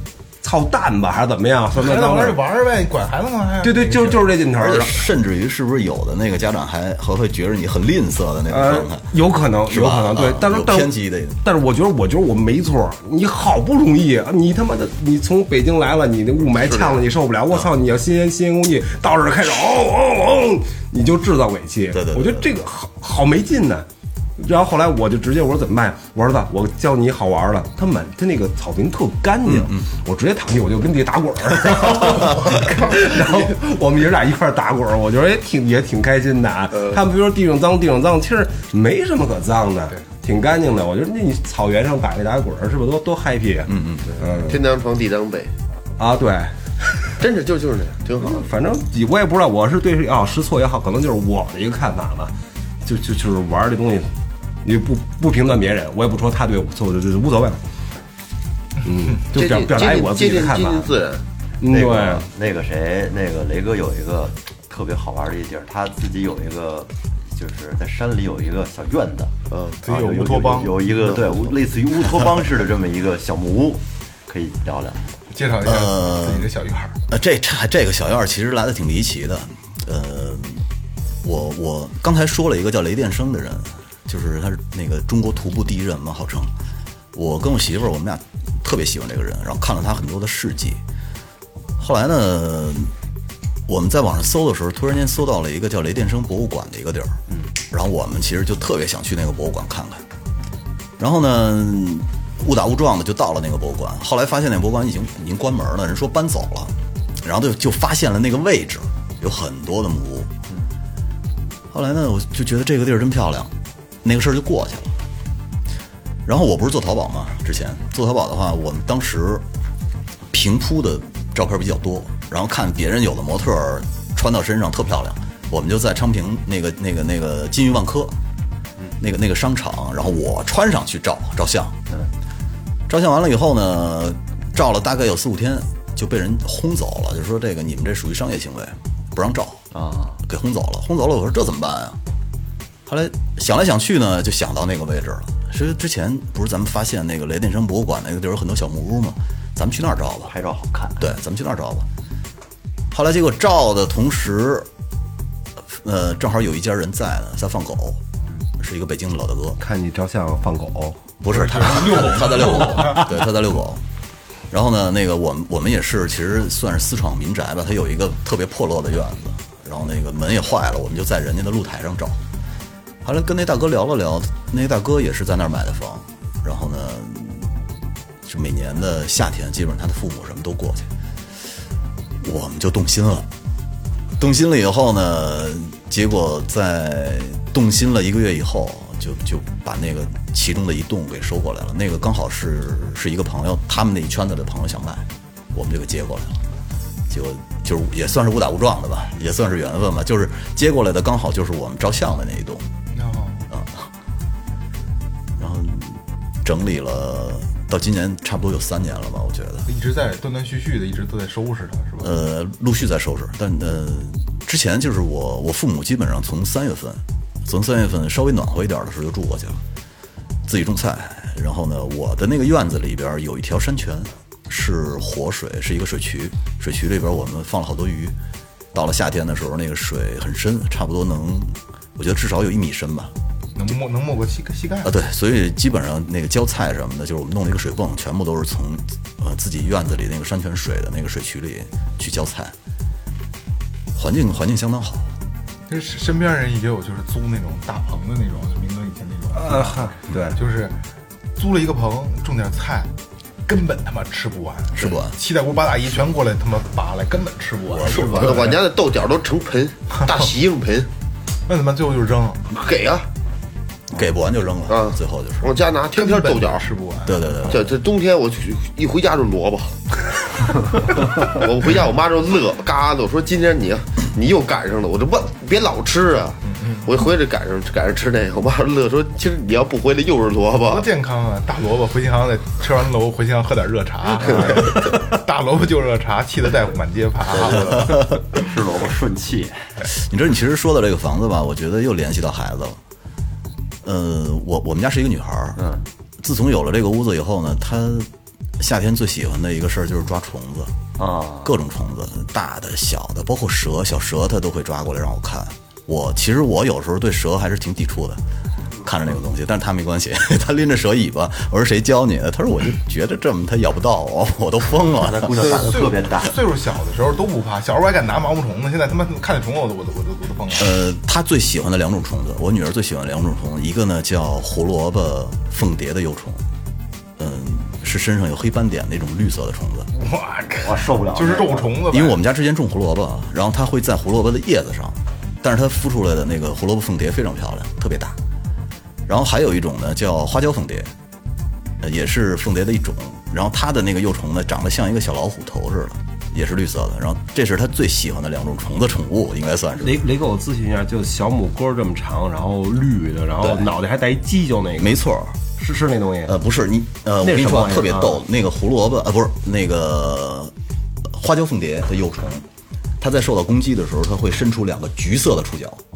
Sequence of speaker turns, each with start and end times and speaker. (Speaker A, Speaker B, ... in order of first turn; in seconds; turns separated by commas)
Speaker A: 0.4-2.4, Speaker B: 1.7-4.4, Speaker A: 3.6-5.1, Speaker C: 4.5-9.1, Speaker A: 8.5-44.6, Speaker C: 9.7-11.4, Speaker D: 16.6-17.0, Speaker C: 21.9-22.5, Speaker C: 29.4-29.9, Speaker C: 43.7-44.1, Speaker D: 44.3-45.5, Speaker A: 46.0-47.2, Speaker D: 47.2-48.5, Speaker A: 48.2-52.3, Speaker A: 52.8-54.1, Speaker A: 54.6-57.6, Speaker A: 58.8-60.9, Speaker D: 59.3-61.2, Speaker A: 61.6-62.3, Speaker E: 61.7-69.3, Speaker D: 69.5-69.8, Speaker B: 69.8-71.0, Speaker E: 69.9-75.1, Speaker B: 75.3-77.0, Speaker C: 75.6-76.5, Speaker C: 77.1-80.6, Speaker C: 81.2-86.5, Speaker C: 87.1-90.8, Speaker C: 91.8-92.9, Speaker C: 93.7-100.0, Speaker C: 101.0-110.3, Speaker C: 111.7-114.9, Speaker C: 116.2-119.4, Speaker C: 120.3-128.1, Speaker C: 129.0-131.8, Speaker C: 132.9-139.6, Speaker E: 139.7-140.2, Speaker C: 140.2-142.0, Speaker C: 142.8-150.3, Speaker E: 150.3-151.1, Speaker C: 151.0-151.8, Speaker C: 152.9-154.7, Speaker C: 155.7-158.0, Speaker C: 158.6-159.6, Speaker A: 159.6-161.0, Speaker C: 161.2-163.8, Speaker B: 161.3-163.1, Speaker A: 162.7-163.0, Speaker C: 164.5-172.2, Speaker C: 173.0-177.5, Speaker C: 178.2-180.9, Speaker C: 182.2-183.3, Speaker C: 184.2-196.4, Speaker C: 197.1-202.7, Speaker B: 202.9-203.5, Speaker C: 203.5-203.9, Speaker C: 205.4-209.7, Speaker B: 209.7-212.1, Speaker C: 212.0-219.6, Speaker C: 220.4-228.1, Speaker C: 228.7-233.1, Speaker B: 233.5-234.9, Speaker C: 234.8-242.5, Speaker C: 243.9-245.1, Speaker B: 245.7-250.8, Speaker A: 249.3-250.4, Speaker B: 251.3-252.9, Speaker B: 253.4-258.6, Speaker C: 254.7-255.1, Speaker C: 257.7-258.1, Speaker D: 257.9-260.9, Speaker B: 261.5-262.5, Speaker D: 262.5-263.1, Speaker C: 263.9-265.5, Speaker D: 264.7-266.6, Speaker B: 265.9-267.4, Speaker C: 267.0-267.7, Speaker D: 267.5-269.8, Speaker D: 270.8-280.8, Speaker B: 276.4-276.9, Speaker B: 280.7-288.0, Speaker E: 287.3-289.7, Speaker C: 289.9-292.8, Speaker C: 293.8-295.6, Speaker E: 295.6-295.8, Speaker C: 296.2-300.7, Speaker E: 301.0-301.5, Speaker C: 301.4-308.2, Speaker C: 308.8-315.6, Speaker E: 315.0-316.3, Speaker B: 315.5-320.8, Speaker C: 320.5-326.4, Speaker C: 327.2-329.9, Speaker B: 329.9-332.2, Speaker E: 330.6-331.8, Speaker C: 331.9-338.2, Speaker C: 339.1-340.9, Speaker C: 341.8-350.0, Speaker A: 349.8-354.9, Speaker C: 354.8-355.4, Speaker A: 355.5-356.4, Speaker C: 356.2-360.5, Speaker A: 357.2-358.2, Speaker C: 361.0-362.4, Speaker C: 363.0-365.8